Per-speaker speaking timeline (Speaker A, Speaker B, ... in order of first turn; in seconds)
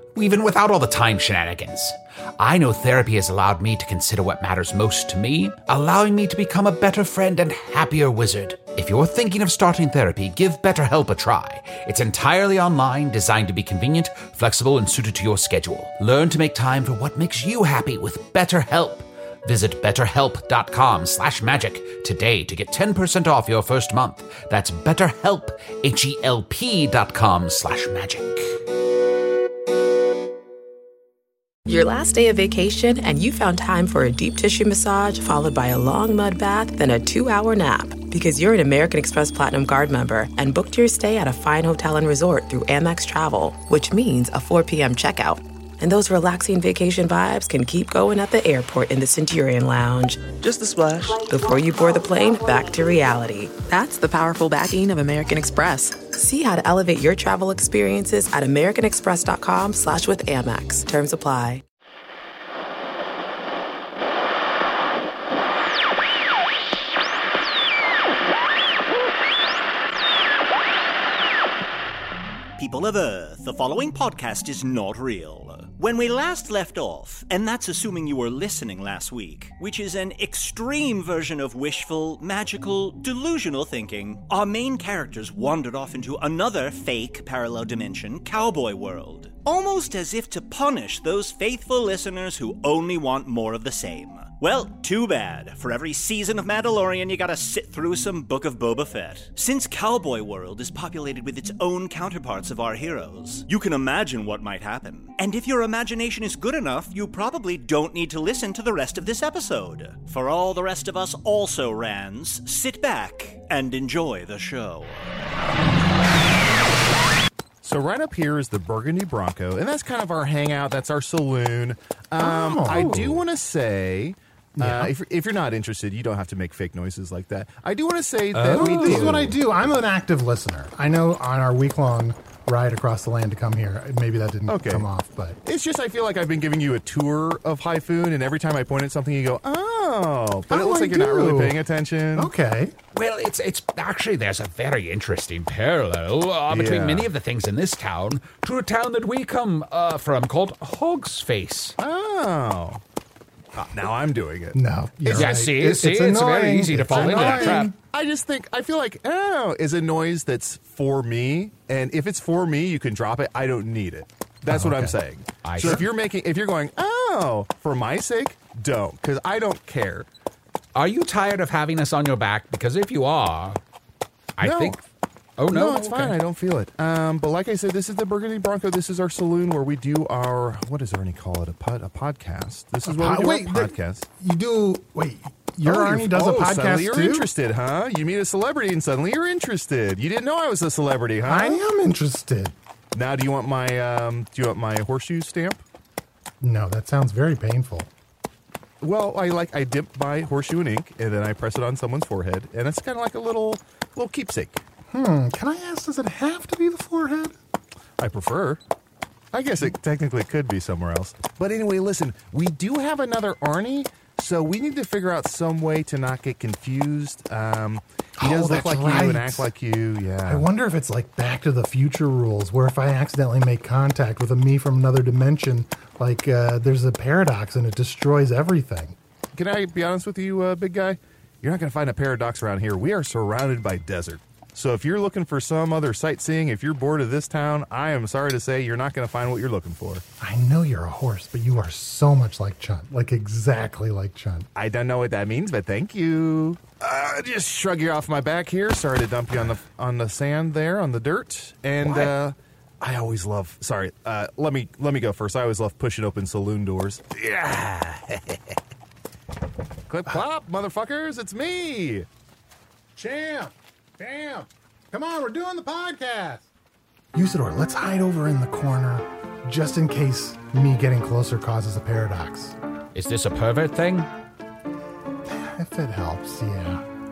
Speaker A: 0.1-28.5, 128.3-129.3, 142.9-151.8, 155.1-157.7, 164.5-165.9, 170.7-173.6, 174.4-174.8, 175.4-176.2, 257.2-258.3, 272.9-274.1
Speaker B: 31.6-61.6
Speaker C: 72.6-115.1
Speaker D: 117.6-129.3, 134.5-134.9, 135.4-142.3, 146.5-147.1, 151.8-152.8, 153.5-155.4, 156.9-170.1, 174.4-174.8, 175.5-184.1, 185.6-191.6, 192.9-195.6, 198.8-204.6, 208.0-208.6, 209.3-220.5, 229.3-240.0, 244.5-257.8, 259.9-262.1
Speaker E: 122.2-123.2, 124.6-124.9, 128.4-135.4, 140.5-141.6, 142.1-142.7, 154.5-157.7, 165.6-165.8, 182.8-187.3, 191.2-192.5, 196.4-197.9, 204.9-207.3, 218.2-219.5, 220.2-228.9, 240.2-244.5, 262.9-266.5, 267.1-272.6, 275.2-276.8